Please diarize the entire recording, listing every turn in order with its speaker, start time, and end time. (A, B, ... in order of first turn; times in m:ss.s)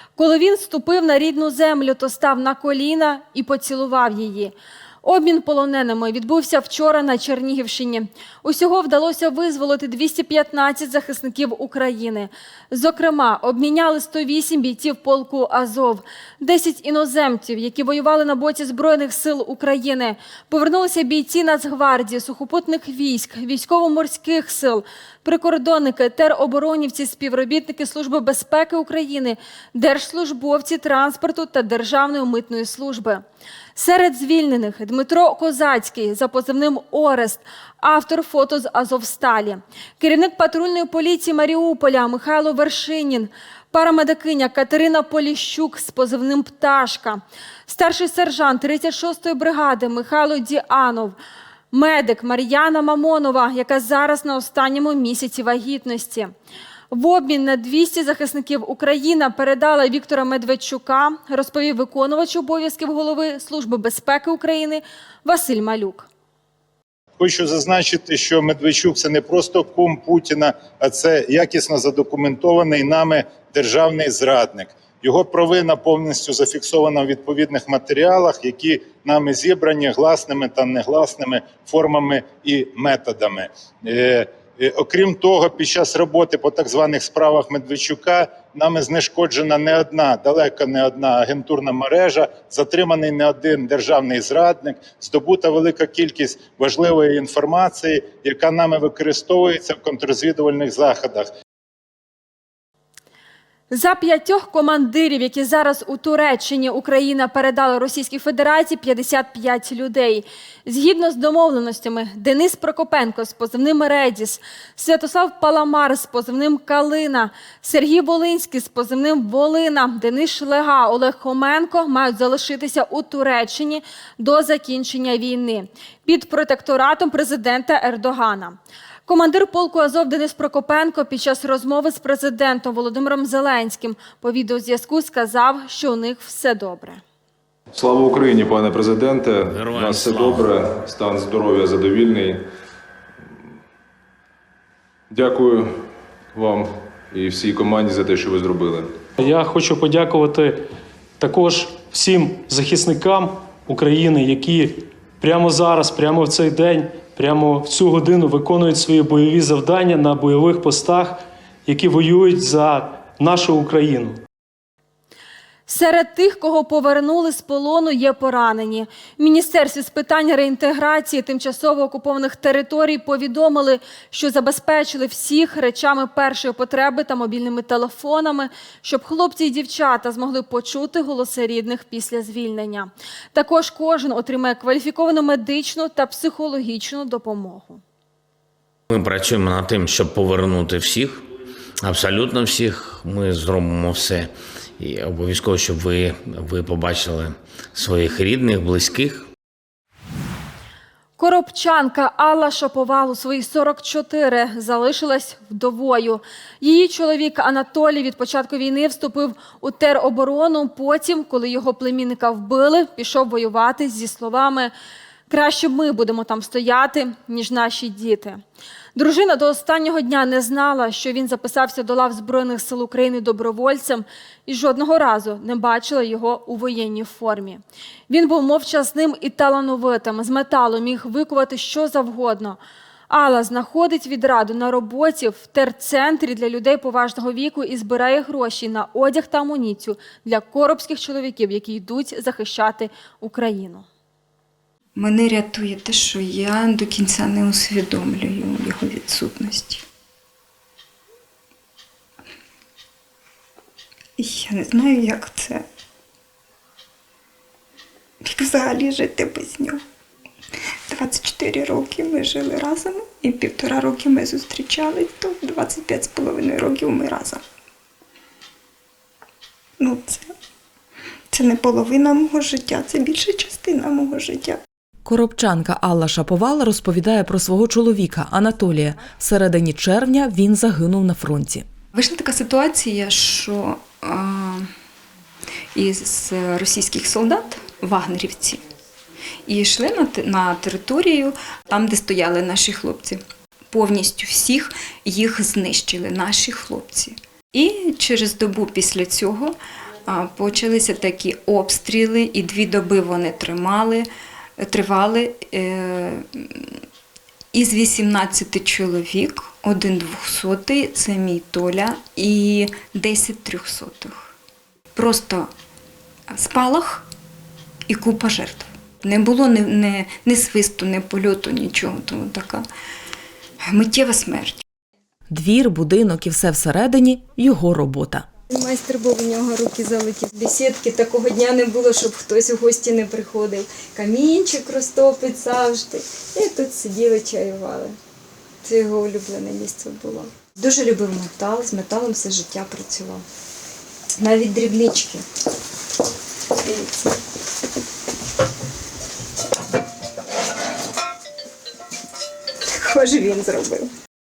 0:00.2-0:33.2 A
0:33.7-0:51.2 A
0:51.7-0:56.3 A
0:56.9-1:06.1 A
1:07.2-1:41.3 B
1:43.7-2:17.0 A
2:17.8-2:22.4 C
2:19.5-2:20.5 D
2:25.1-2:25.7 C
2:26.3-2:28.9 C
2:29.2-2:30.5 E
2:31.2-2:44.2 E
2:45.7-3:07.8 A
3:08.9-3:11.2 D
3:11.8-3:19.2 D
3:21.2-3:34.7 A
3:35.3-3:38.4 A
3:38.9-3:52.6 A
3:53.1-4:03.8 A
4:05.0-4:09.8 F
4:14.2-4:15.6 F
4:18.2-4:19.8 F
4:20.9-4:27.4 F
4:29.8-4:30.3 F
4:31.3-4:34.6 F
4:35.0-4:41.6 G
4:41.9-4:44.7 F
4:45.7-4:48.6 F
4:49.5-4:59.5 F
5:00.1-5:04.1 F
5:04.6-5:06.6 F
5:07.5-5:14.2 F
5:15.0-5:15.5 F
5:16.3-5:17.0 F
5:17.9-5:22.6 F
5:23.7-5:24.6 F
5:25.3-5:28.2 G
5:28.5-5:38.0 F
5:38.6-5:43.2 F
5:44.2-5:45.2 F
5:46.6-5:47.1 F
5:52.7-5:53.9 F